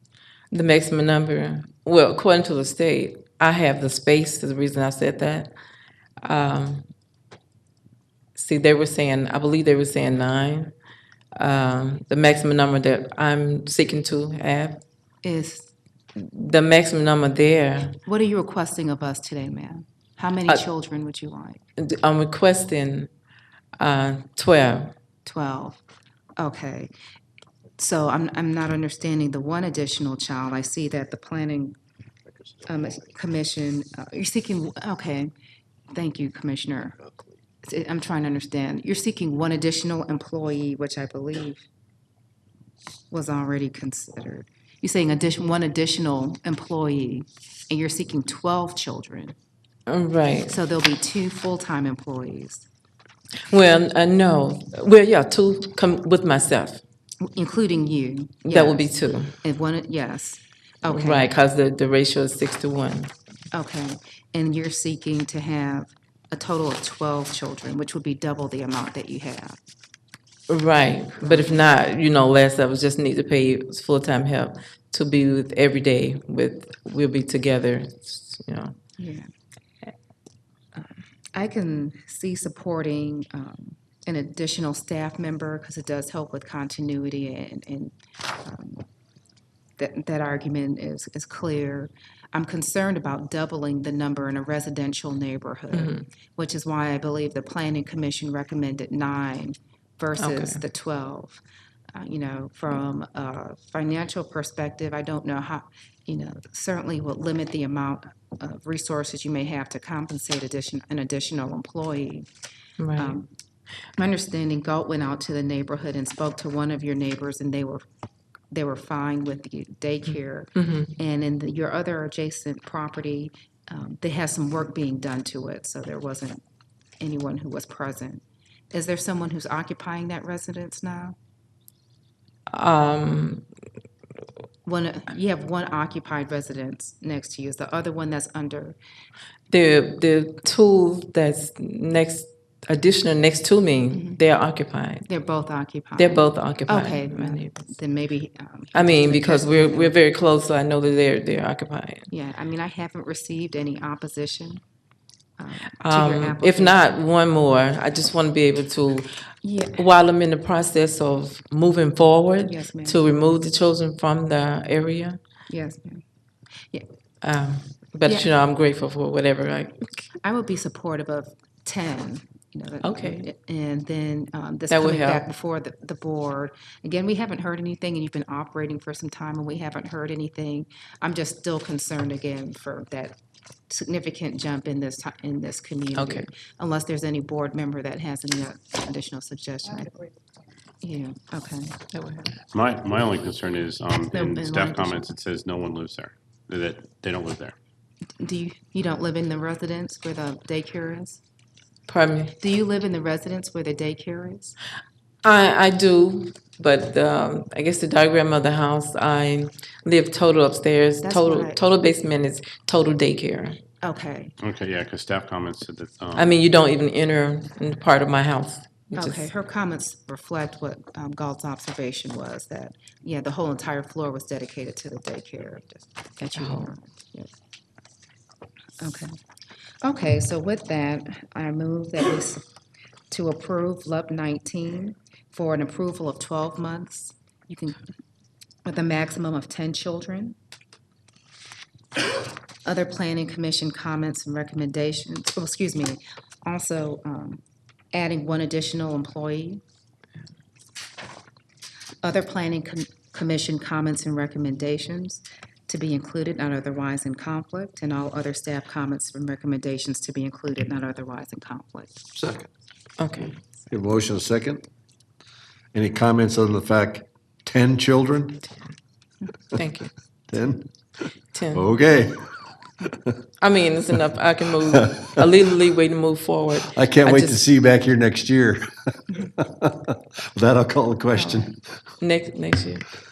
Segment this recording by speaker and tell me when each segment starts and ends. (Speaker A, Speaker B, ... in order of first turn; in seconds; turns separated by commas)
Speaker A: 0.5-5.5, Speaker A: 6.2-6.8, Speaker A: 8.3-10.7, Speaker A: 11.3-14.8, Speaker B: 15.2-15.7, Speaker A: 16.1-18.0, Speaker B: 18.0-21.6, Speaker A: 21.8-23.1, Speaker A: 23.8-24.9, Speaker B: 25.2-25.8, Speaker B: 26.4-26.9, Speaker B: 27.8-31.8, Speaker B: 32.6-35.3, Speaker B: 35.9-37.0, Speaker B: 37.6-41.7, Speaker B: 43.1-49.3, Speaker A: 49.9-50.6, Speaker B: 50.5-52.7, Speaker A: 53.5-56.8, Speaker B: 57.2-58.9, Speaker A: 58.5-59.3, Speaker B: 59.4-61.3, Speaker A: 60.8-63.1, Speaker B: 63.5-69.6, Speaker A: 70.5-78.7, Speaker B: 71.2-71.7, Speaker B: 79.0-79.3, Speaker B: 80.7-88.8, Speaker B: 89.8-101.4, Speaker A: 95.7-96.0, Speaker A: 100.2-100.6, Speaker B: 101.9-112.3, Speaker A: 112.8-113.2, Speaker B: 113.0-113.3, Speaker B: 113.9-117.8, Speaker B: 118.5-126.4, Speaker A: 120.6-120.9, Speaker B: 127.0-131.2, Speaker A: 132.5-133.4, Speaker B: 134.6-138.8, Speaker A: 139.5-145.1, Speaker B: 143.9-144.2, Speaker B: 145.1-149.9, Speaker A: 146.0-147.6, Speaker A: 148.7-152.1, Speaker B: 152.1-154.6, Speaker B: 155.4-156.8, Speaker A: 155.8-159.1, Speaker B: 159.4-159.8, Speaker A: 159.7-165.2, Speaker B: 162.4-163.0, Speaker B: 165.5-166.0, Speaker A: 167.2-170.1, Speaker B: 170.1-183.2, Speaker A: 172.8-173.2, Speaker A: 174.7-175.2, Speaker B: 183.7-190.0, Speaker A: 186.0-186.3, Speaker B: 190.8-191.8, Speaker A: 191.9-192.3, Speaker C: 192.5-197.6, Speaker B: 194.1-195.0, Speaker B: 198.2-201.2, Speaker A: 201.9-202.3, Speaker B: 202.4-204.6, Speaker A: 205.2-213.6, Speaker B: 211.0-211.6, Speaker B: 213.8-214.3, Speaker C: 214.4-216.3, Speaker A: 216.2-219.3, Speaker B: 218.9-227.3, Speaker A: 226.4-226.7, Speaker B: 228.8-229.2, Speaker B: 229.8-232.4, Speaker B: 233.1-237.9, Speaker B: 238.6-240.4, Speaker B: 242.6-247.4, Speaker B: 247.9-249.6, Speaker B: 252.0-262.0, Speaker D: 262.1-262.5, Speaker A: 263.0-263.3, Speaker B: 263.2-263.7, Speaker D: 263.7-264.6, Speaker D: 265.7-268.4, Speaker A: 269.5-269.9, Speaker D: 270.3-270.7, Speaker A: 271.3-271.7, Speaker D: 271.5-272.3, Speaker A: 273.4-277.4, Speaker D: 276.7-281.6, Speaker B: 281.1-281.5, Speaker A: 282.0-282.8